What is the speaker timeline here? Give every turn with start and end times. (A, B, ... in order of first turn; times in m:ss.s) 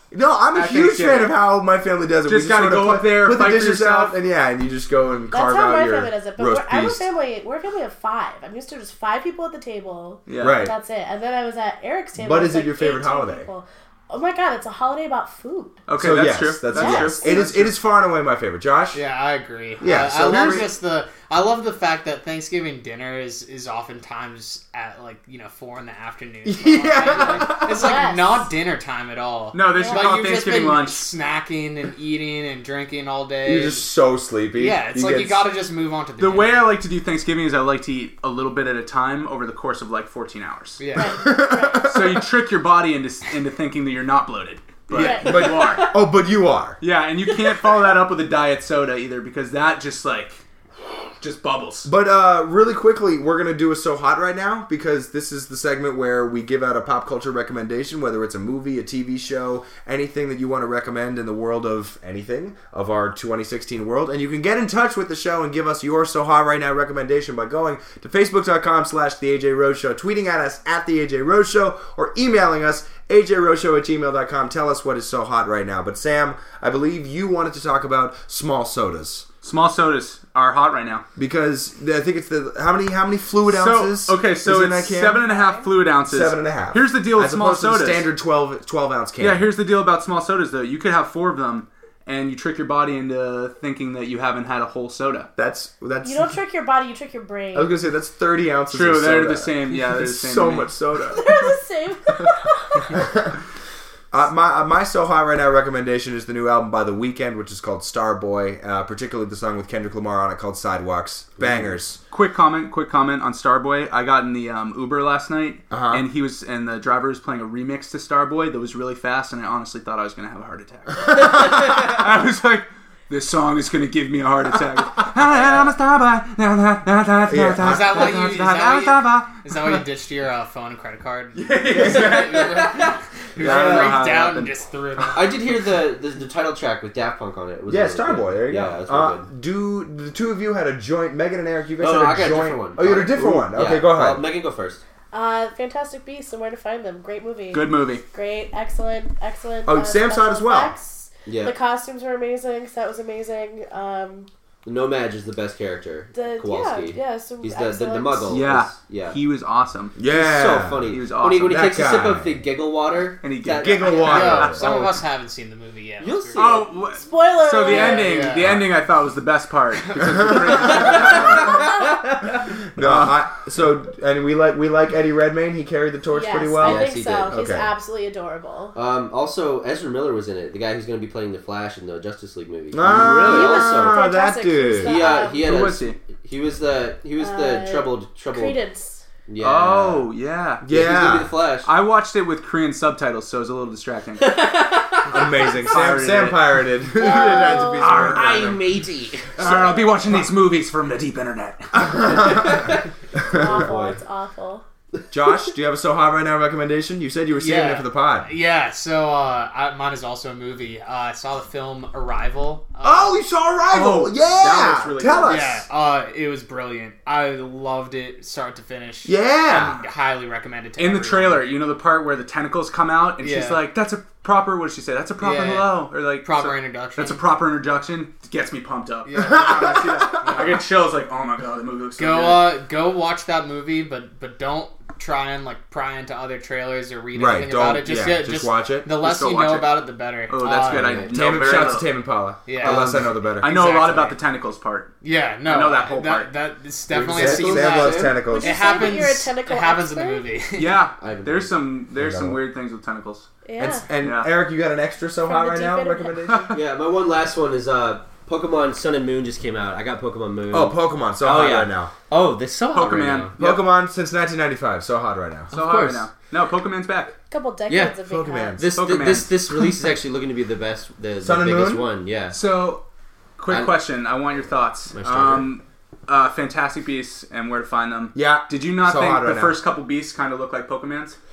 0:00.1-0:07.1 A
0:00.5-0:01.4 B
0:02.3-0:04.2 B
0:05.3-0:15.8 C
0:10.3-0:10.7 B
0:10.4-0:10.8 A
0:12.2-0:13.5 A
0:15.9-0:17.8 B
0:16.0-0:19.0 A
0:16.7-0:17.5 C
0:18.9-0:33.9 D
0:19.8-0:20.7 A
0:20.3-0:20.6 B
0:26.4-0:28.0 A
0:27.5-0:28.5 C
0:29.5-0:31.1 B
0:29.6-0:30.4 C
0:33.4-0:35.5 A
0:34.6-0:36.7 D
0:36.2-0:40.8 B
0:40.8-0:41.2 D
0:40.9-0:41.9 C
0:41.2-0:42.3 A
0:41.8-0:46.0 B
0:44.9-0:45.9 C
0:44.9-0:46.8 A
0:46.8-0:50.4 B
0:51.2-0:51.9 B
0:51.8-1:19.3 A
1:19.4-1:21.1 B
1:21.2-1:25.3 A
1:23.5-1:28.1 B
1:26.0-1:29.5 A
1:29.2-1:35.3 B
1:35.4-1:36.4 A
1:36.0-1:37.7 C
1:37.5-1:41.5 A
1:38.7-1:40.8 B
1:41.1-1:43.0 C
1:42.9-1:43.3 A
1:44.1-1:52.0 A
1:52.1-2:09.8 B
1:55.7-1:56.1 A
2:07.3-2:08.2 A
2:07.6-2:15.4 D
2:11.4-2:14.6 B
2:13.4-2:14.0 A
2:15.1-2:19.3 E
2:17.7-2:24.3 A
2:21.8-2:24.8 E
2:25.1-2:34.3 C
2:27.5-2:28.0 B
2:29.6-2:30.8 A
2:31.3-2:31.6 E
2:34.6-2:39.2 E
2:36.1-2:38.6 C
2:38.3-2:40.0 B
2:40.0-2:42.4 A
2:40.0-2:44.7 E
2:40.9-2:41.9 B
2:43.2-2:44.9 B
2:43.6-2:44.8 A
2:44.0-2:46.6 D
2:46.0-2:46.9 E
2:46.4-2:51.8 B
2:46.9-2:48.3 C
2:47.6-2:48.6 D
2:50.1-2:50.6 A
2:50.6-2:51.9 E
2:52.8-2:57.7 A
2:52.8-2:53.2 B
2:56.1-2:58.8 C
2:56.6-2:57.4 E
2:58.8-3:04.0 E
3:02.7-3:05.0 A
3:02.9-3:05.6 C
3:04.8-3:08.6 E
3:05.2-3:06.0 B
3:07.2-3:09.0 C
3:09.3-3:10.1 E
3:09.4-3:10.7 B
3:10.6-3:11.3 A
3:10.6-3:11.7 E
3:11.6-3:14.6 B
3:14.2-3:15.5 E
3:15.1-3:18.6 A
3:15.4-3:17.2 B
3:17.0-3:18.0 C
3:17.1-3:19.8 E
3:17.8-3:18.6 B
3:19.4-3:22.2 B
3:22.0-3:22.5 A
3:22.2-3:22.8 E
3:23.2-3:24.6 C
3:23.4-3:23.7 A
3:23.4-3:24.0 E
3:25.1-3:28.3 A
3:27.4-3:33.2 D
3:32.8-3:35.6 A
3:33.7-3:35.6 B
3:35.2-3:41.5 D
3:39.0-3:39.8 A
3:40.8-3:52.6 B
3:43.2-3:43.7 D
3:45.2-3:47.2 D
3:49.1-3:50.6 D
3:49.3-3:50.1 A
3:52.0-4:01.0 D
3:57.1-3:58.9 A
3:59.0-4:01.9 B
4:00.4-4:01.2 E
4:01.1-4:03.5 A
4:02.5-4:04.2 D
4:02.6-4:04.9 B
4:05.0-4:10.9 D
4:05.4-4:06.3 B
4:06.9-4:08.2 E
4:07.2-4:08.9 A
4:08.2-4:10.4 C
4:10.6-4:13.3 B
4:11.0-4:11.6 E
4:12.0-4:12.4 A
4:13.4-4:13.9 C
4:13.6-4:16.6 A
4:14.0-4:14.3 B
4:15.2-4:16.4 C
4:16.3-4:16.6 B
4:16.5-4:23.5 E
4:20.5-4:21.9 A
4:22.7-4:23.4 B
4:23.4-4:25.5 A
4:25.5-4:26.1 E
4:25.5-4:27.2 B
4:27.3-4:28.7 C
4:27.7-4:28.0 E
4:28.0-4:28.8 A
4:28.6-4:32.4 E
4:28.8-4:29.7 B
4:31.2-4:31.9 A
4:32.3-4:32.8 B
4:33.4-4:41.2 B
4:33.5-4:33.8 E
4:34.9-4:35.6 E
4:38.1-4:39.6 A